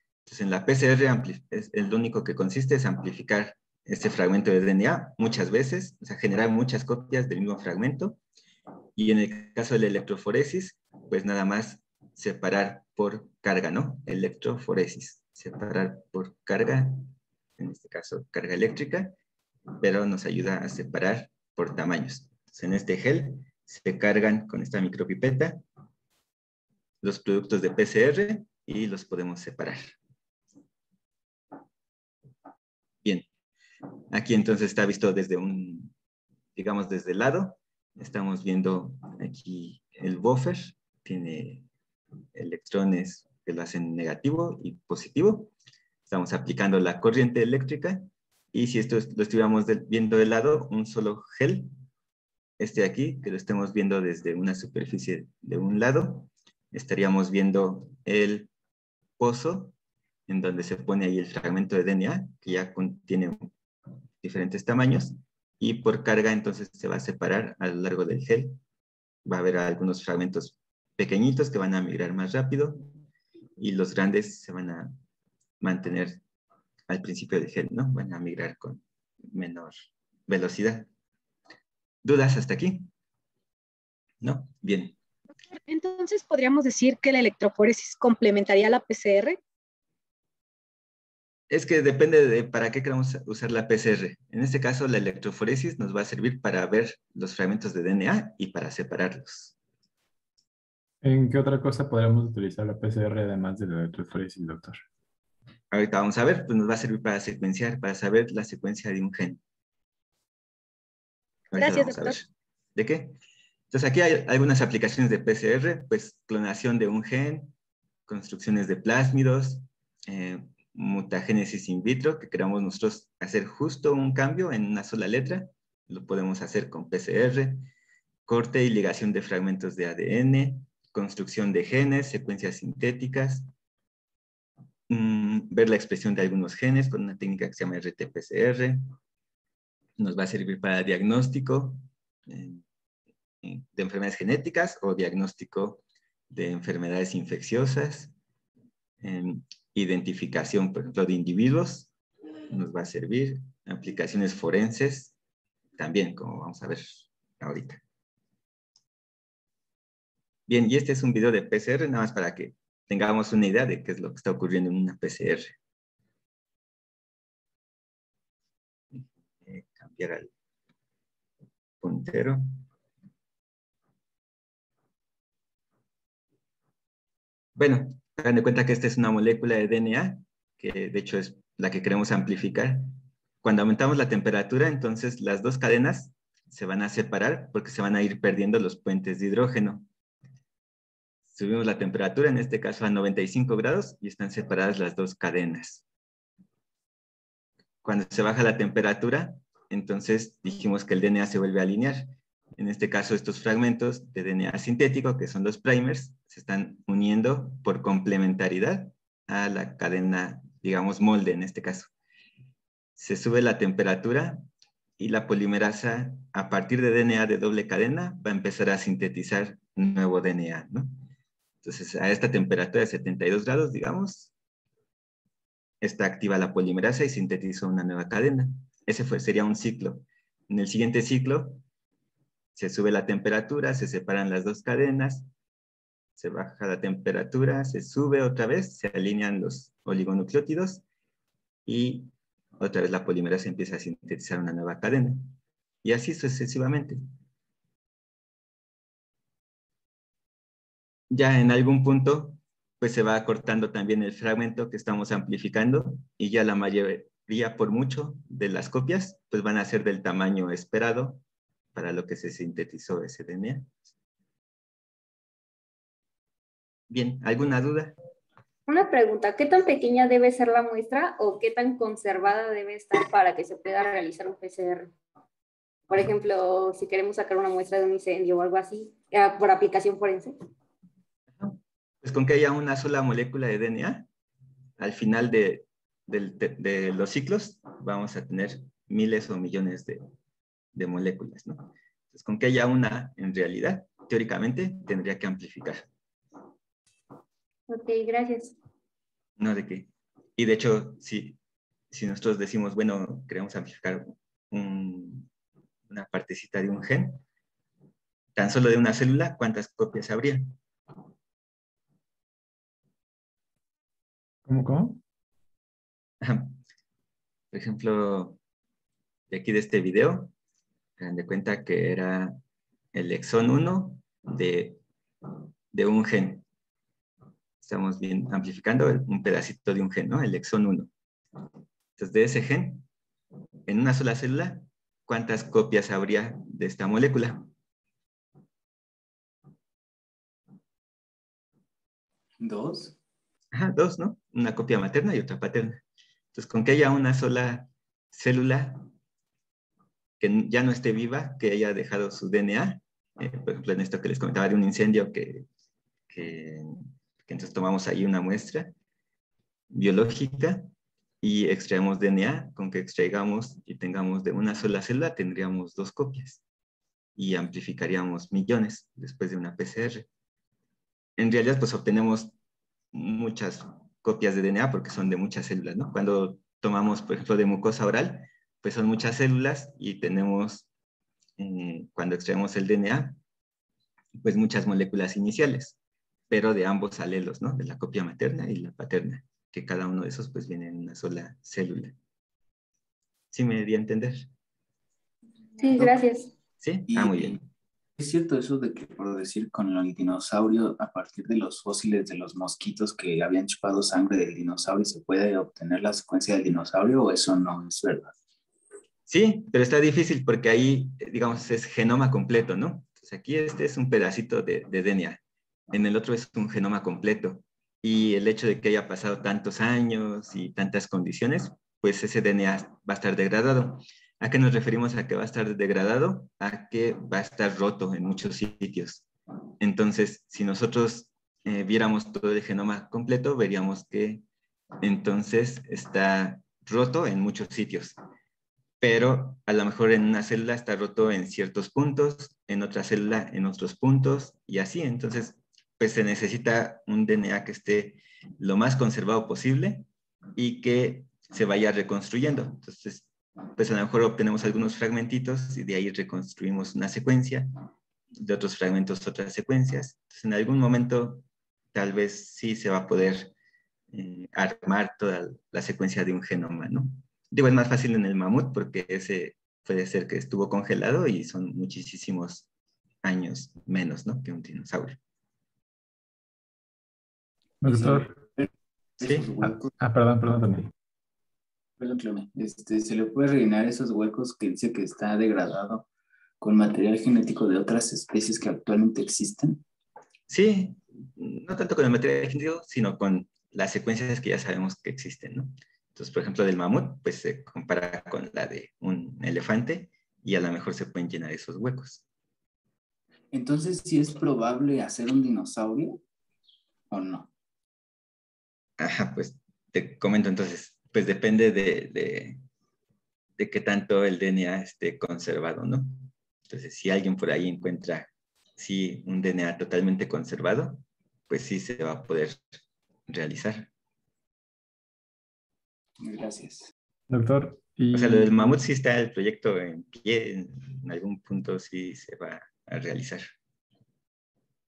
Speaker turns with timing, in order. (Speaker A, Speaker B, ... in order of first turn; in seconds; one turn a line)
Speaker A: 0.3-8.2
Speaker A: 9.0-19.1
Speaker A: 19.8-25.6
Speaker A: 27.0-30.0
Speaker A: 34.1-35.9
Speaker A: 36.5-41.6
Speaker A: 42.4-45.5
Speaker A: 46.1-51.7
Speaker A: 52.6-58.5
Speaker A: 59.2-59.7
Speaker A: 60.3-63.5
Speaker A: 64.2-68.6
Speaker A: 69.3-72.9
Speaker A: 73.6-75.0
Speaker A: 75.6-76.2
Speaker A: 76.9-79.8
Speaker A: 80.3-80.9
Speaker A: 82.0-82.9
Speaker A: 84.2-85.0
Speaker B: 85.5-89.4
Speaker A: 91.5-99.5
Speaker C: 101.0-104.8
Speaker A: 105.7-109.4
Speaker A: 111.5-113.2
Speaker B: 111.5-112.2
Speaker A: 113.7-117.5
Speaker A: 118.1-127.7
Speaker A: 128.3-133.5
Speaker A: 134.9-138.8
Speaker A: 140.0-142.6
Speaker A: 143.4-148.1
Speaker A: 149.0-151.9
Speaker A: 152.5-155.1
Speaker A: 155.8-157.8
Speaker A: 160.5-165.6
Speaker A: 168.9-170.3
Speaker A: 171.8-172.4
Speaker A: 177.6-189.9
Speaker A: 191.3-195.8
Speaker A: 197.8-211.9
Speaker A: 213.0-214.4
Speaker A: 215.0-221.0
Speaker A: 221.6-224.3
Speaker A: 225.8-231.6
Speaker A: 232.6-235.3
Speaker A: 236.2-240.8
Speaker A: 241.7-247.0
Speaker A: 251.1-261.2
Speaker A: 261.8-263.7
Speaker A: 266.9-267.9
Speaker D: 268.7-274.9
Speaker D: 275.9-280.4
Speaker A: 281.4-284.1
Speaker A: 284.8-290.0
Speaker A: 290.7-295.9
Speaker D: 297.7-298.6
Speaker A: 299.4-301.4
Speaker A: 301.9-305.3
Speaker A: 305.9-307.2
Speaker A: 308.4-310.6
Speaker C: 314.5-315.0
Speaker A: 316.2-316.6
Speaker A: 317.5-318.4
Speaker A: 319.3-320.3
Speaker A: 321.0-322.4
Speaker A: 322.9-324.8
Speaker A: 325.7-326.4
Speaker A: 327.6-330.9
Speaker A: 332.0-332.9
Speaker A: 333.7-337.5
Speaker E: 342.4-343.0
Speaker A: 343.5-345.8
Speaker A: 346.3-348.9
Speaker A: 350.2-355.4
Speaker A: 356.1-358.7
Speaker A: 359.7-360.7
Speaker A: 361.2-366.4
Speaker A: 367.2-370.1
Speaker A: 371.2-372.4
Speaker A: 372.9-380.7
Speaker A: 381.4-383.2
Speaker A: 384.2-385.8
Speaker A: 386.3-391.9
Speaker A: 393.3-394.3
Speaker D: 395.6-396.3
Speaker A: 396.6-397.4
Speaker E: 396.9-397.4
Speaker E: 398.0-408.1
Speaker A: 409.1-415.2
Speaker A: 415.7-429.1
Speaker A: 429.6-434.2
Speaker A: 434.8-438.0
Speaker A: 438.8-449.9
Speaker A: 450.4-457.5
Speaker A: 458.2-463.3
Speaker A: 463.9-472.5
Speaker A: 473.0-475.0
Speaker C: 477.6-478.1
Speaker E: 477.6-478.5
Speaker A: 479.0-479.3
Speaker E: 479.0-479.8
Speaker C: 479.4-480.7
Speaker E: 481.8-485.9
Speaker E: 486.4-489.6
Speaker A: 490.3-502.0
Speaker E: 503.3-506.0
Speaker E: 506.9-507.3
Speaker A: 508.8-512.4
Speaker A: 513.4-522.4
Speaker A: 523.1-523.7
Speaker E: 526.0-526.7
Speaker C: 527.1-528.6
Speaker A: 527.9-533.3